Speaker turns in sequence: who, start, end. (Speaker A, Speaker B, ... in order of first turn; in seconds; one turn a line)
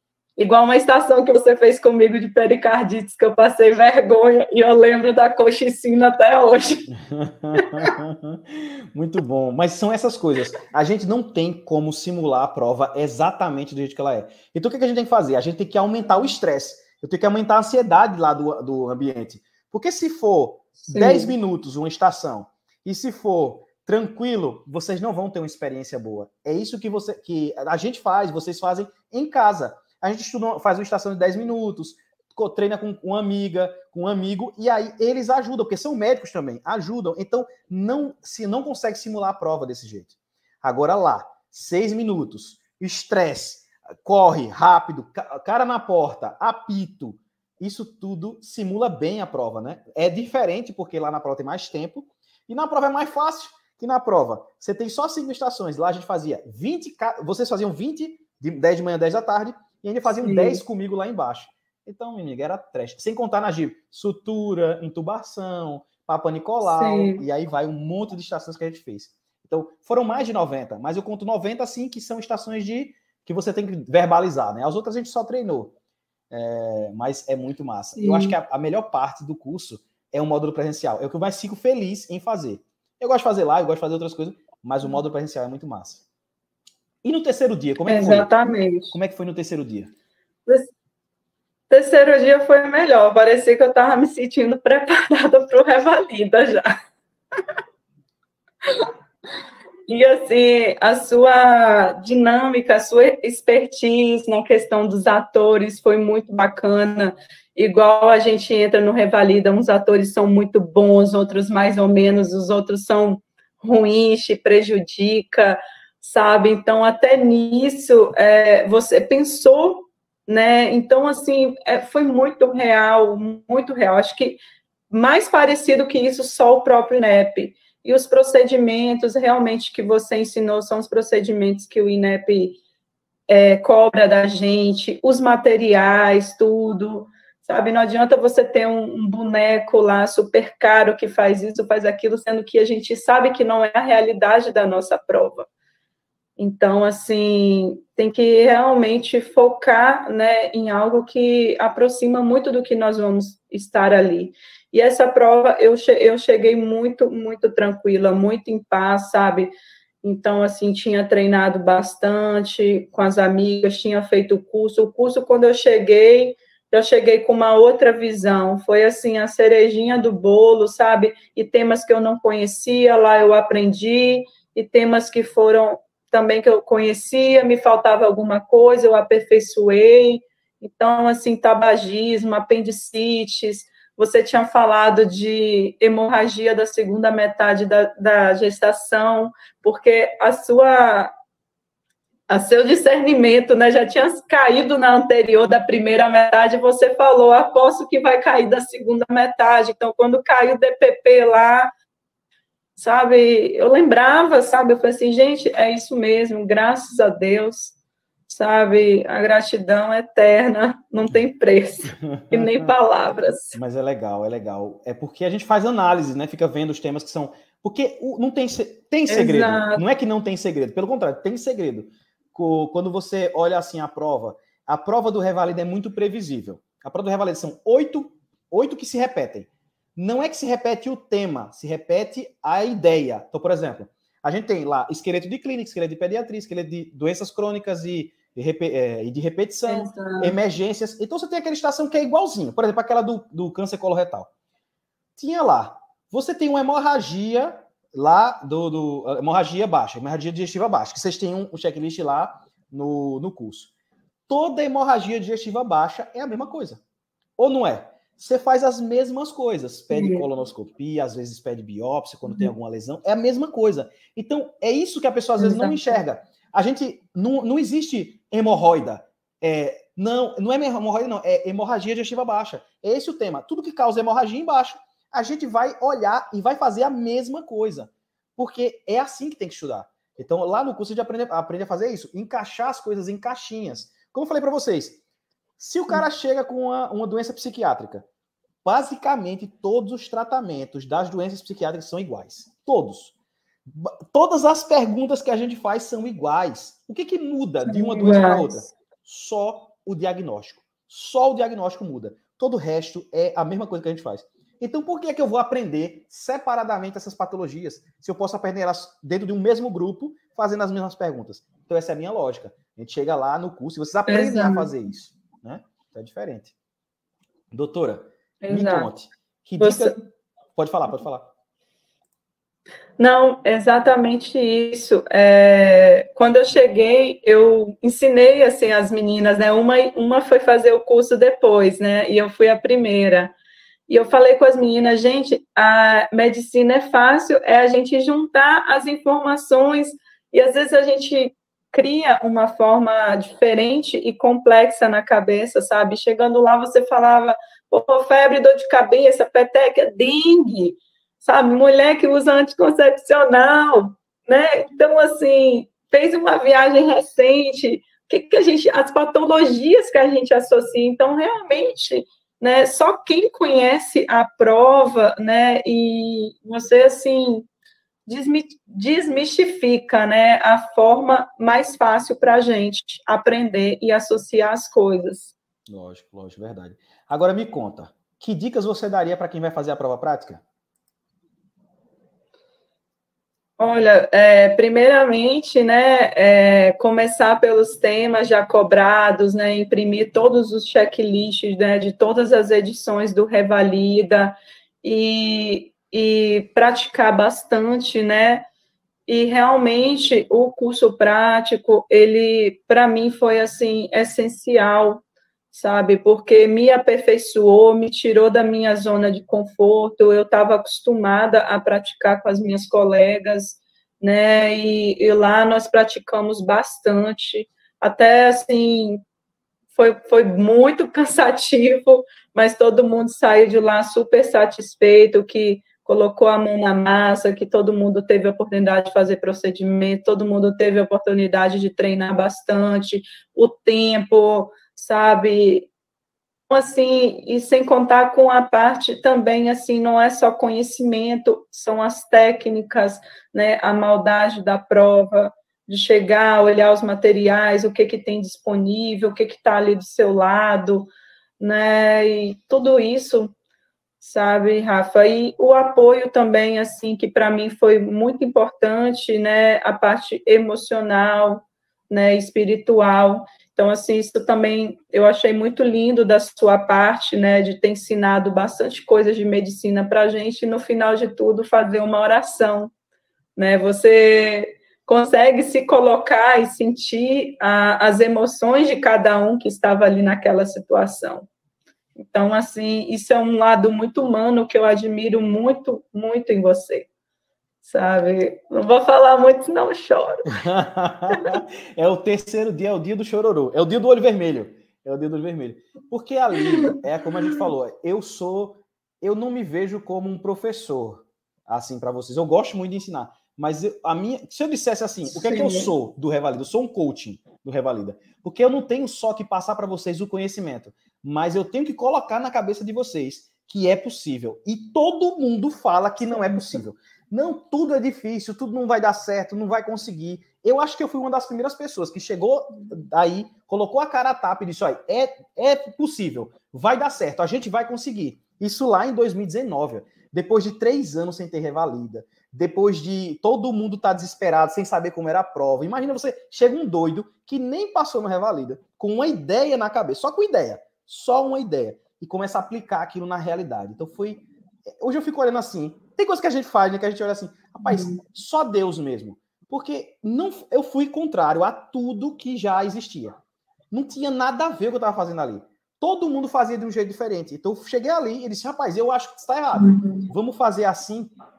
Speaker A: 0.4-6.9
Speaker B: 6.9-75.7
Speaker A: 7.6-7.9
Speaker A: 20.9-21.3
Speaker A: 60.2-60.6
Speaker A: 66.6-67.2
Speaker B: 76.3-86.0
Speaker A: 78.0-78.3
Speaker B: 87.0-88.3
Speaker A: 87.9-88.9
Speaker B: 88.9-89.9
Speaker A: 90.5-90.7
Speaker A: 91.7-96.7
Speaker A: 98.7-98.9
Speaker A: 99.9-132.6
Speaker A: 133.3-145.5
Speaker A: 146.4-191.1
Speaker A: 192.3-201.7
Speaker A: 202.8-207.8
Speaker A: 208.3-213.6
Speaker B: 211.9-212.7
Speaker B: 213.6-244.3
Speaker A: 219.1-219.8
Speaker A: 239.7-240.3
Speaker B: 245.2-253.7
Speaker B: 254.3-256.8
Speaker B: 257.4-285.0
Speaker A: 259.9-260.2
Speaker A: 265.4-265.9
Speaker B: 285.6-288.1
Speaker B: 288.6-293.1
Speaker B: 293.7-316.5
Speaker A: 297.7-298.6
Speaker A: 314.1-314.7
Speaker B: 317.5-320.0
Speaker A: 318.4-318.9
Speaker A: 319.6-319.9
Speaker B: 320.6-321.3
Speaker A: 323.0-333.3
Speaker A: 333.9-367.5
Speaker A: 368.1-375.3
Speaker B: 375.7-380.4
Speaker A: 383.6-398.5
Speaker A: 399.1-419.0
Speaker A: 419.7-435.7
Speaker A: 436.5-453.3
Speaker A: 454.0-472.7
Speaker A: 473.4-481.3
Speaker A: 482.0-486.9
Speaker A: 487.6-490.3
Speaker B: 490.3-544.2
Speaker A: 505.1-505.7
Speaker B: 544.8-553.2
Speaker A: 547.6-548.0
Speaker B: 553.7-561.1
Speaker A: 559.6-560.1